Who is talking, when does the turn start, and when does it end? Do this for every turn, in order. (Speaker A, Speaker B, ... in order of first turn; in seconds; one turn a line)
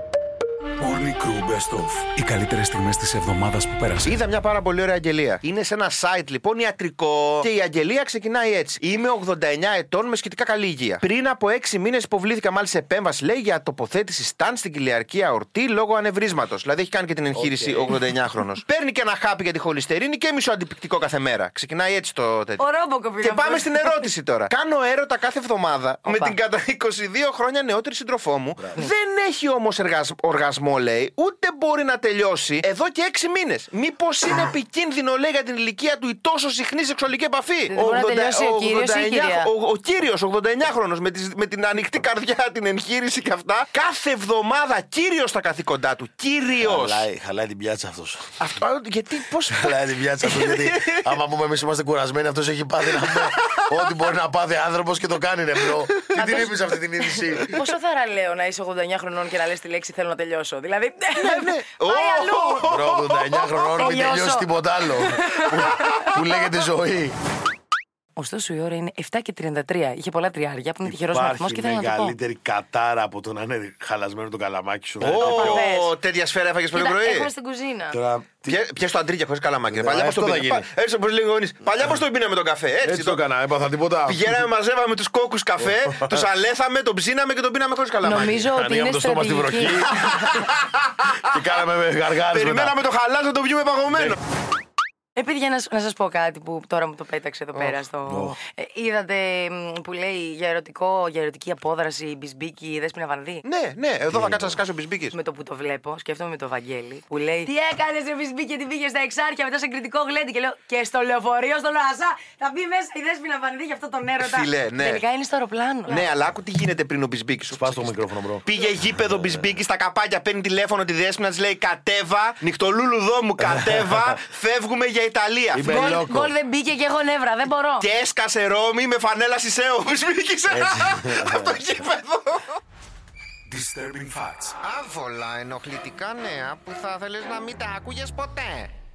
Speaker A: 0.8-4.2
Speaker B: 4.0-22.6
Speaker C: 17.3-18.0
Speaker D: 22.6-24.1
Speaker B: 23.2-47.1
Speaker D: 26.1-26.4
Speaker D: 37.7-39.5
Speaker C: 46.6-48.3
Speaker B: 48.4-51.1
Speaker C: 49.5-57.6
Speaker B: 53.0-53.8
Speaker D: 56.1-56.5
Speaker D: 57.0-62.7
Speaker B: 61.1-63.5
Speaker C: 62.6-67.2
Speaker D: 63.7-66.2
Speaker D: 68.2-72.2
Speaker C: 70.8-75.7
Speaker B: 75.0-77.3
Speaker D: 75.1-75.9
Speaker D: 76.7-78.0
Speaker C: 77.9-78.6
Speaker B: 78.5-83.2
Speaker C: 79.7-80.7
Speaker C: 82.8-84.5
Speaker B: 84.1-88.5
Speaker D: 88.0-89.9
Speaker C: 88.1-90.1
Speaker B: 90.0-91.1
Speaker C: 91.2-92.8
Speaker B: 92.2-94.2
Speaker D: 95.2-103.4
Speaker C: 98.1-98.4
Speaker B: 103.5-105.1
Speaker C: 104.1-104.6
Speaker D: 105.1-116.0
Speaker B: 114.2-115.0
Speaker B: 115.9-126.0
Speaker C: 117.5-118.5
Speaker C: 123.4-124.1
Speaker C: 125.5-126.3
Speaker D: 125.6-127.9
Speaker B: 127.8-132.6
Speaker C: 130.5-131.7
Speaker A: 133.5-134.5
Speaker B: 134.6-138.7